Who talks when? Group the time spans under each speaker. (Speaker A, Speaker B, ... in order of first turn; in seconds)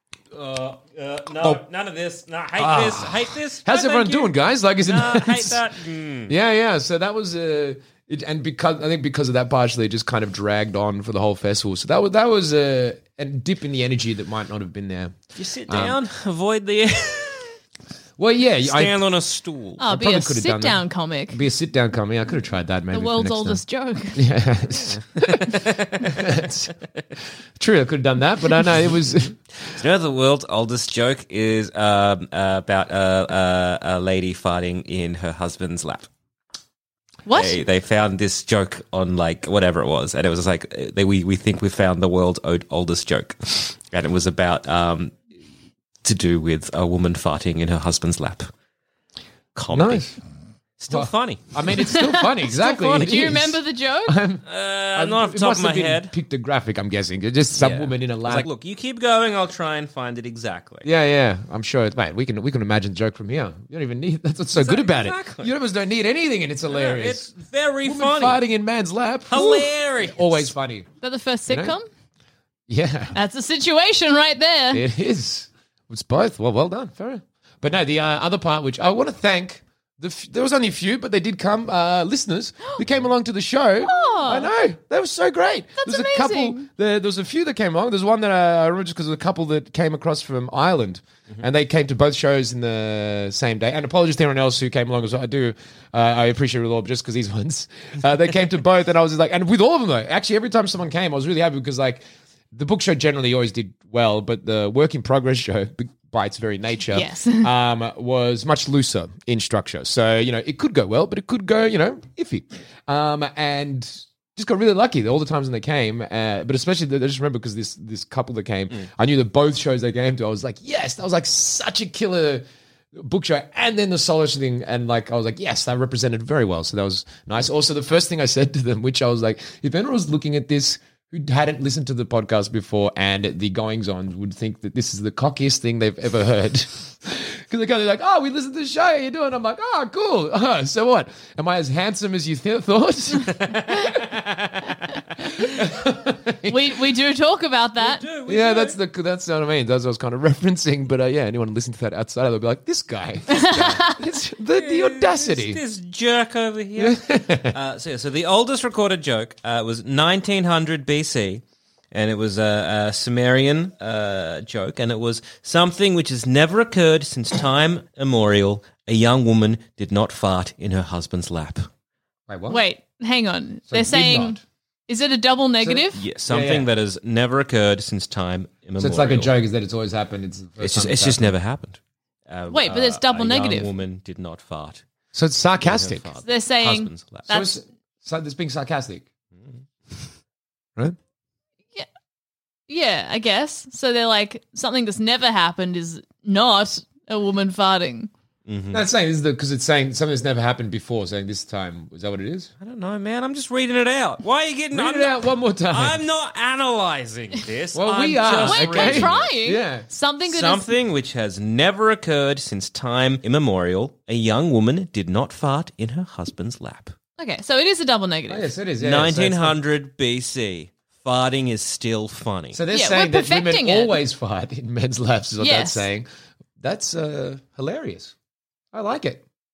Speaker A: 0.3-6.3, 15.4-17.6, 18.6-19.8, 25.5-26.1, 29.7-36.1, 37.3-45.1, 46.0-48.5, 49.5-50.1, 50.8-51.5, 54.5-56.1, 57.6-60.9, 64.6-65.5, 66.7-68.4, 69.3-70.5, 143.3-144.0, 147.8-148.8, 154.6-171.7, 175.9-179.3, 180.6-184.8, 185.6-187.3, 189.4-190.0, 198.5-198.8, 202.6-209.3, 210.2-216.9, 218.8-222.6
Speaker B: 2.6-5.6, 6.3-16.0, 18.2-19.1, 19.8-23.6, 24.1-26.7, 27.6-29.4, 49.7-50.1, 50.9-54.4, 55.0-58.5, 60.8-67.3, 67.8-70.9, 71.5-71.8, 72.7-73.2, 74.7-146.8, 148.2-155.6, 156.8-157.6, 172.3-172.6, 173.7-174.4, 175.6-176.7, 178.8-181.2, 185.1-186.1, 187.3-189.1, 198.7-202.5, 204.7-206.0, 207.7-209.9, 218.3-219.6, 222.5-226.1, 226.6-228.1, 228.7-229.2
Speaker C: 19.8-21.4, 22.9-24.2, 37.2-37.6, 51.9-54.2, 71.0-71.9, 73.1-74.8, 83.8-84.5, 85.8-86.7, 106.9-107.5, 146.5-148.1, 153.3-154.0, 172.5-176.0, 182.5-183.7, 186.2-187.6, 192.7-198.1, 208.4-210.7, 217.2-218.5, 222.7-224.0, 225.4-225.9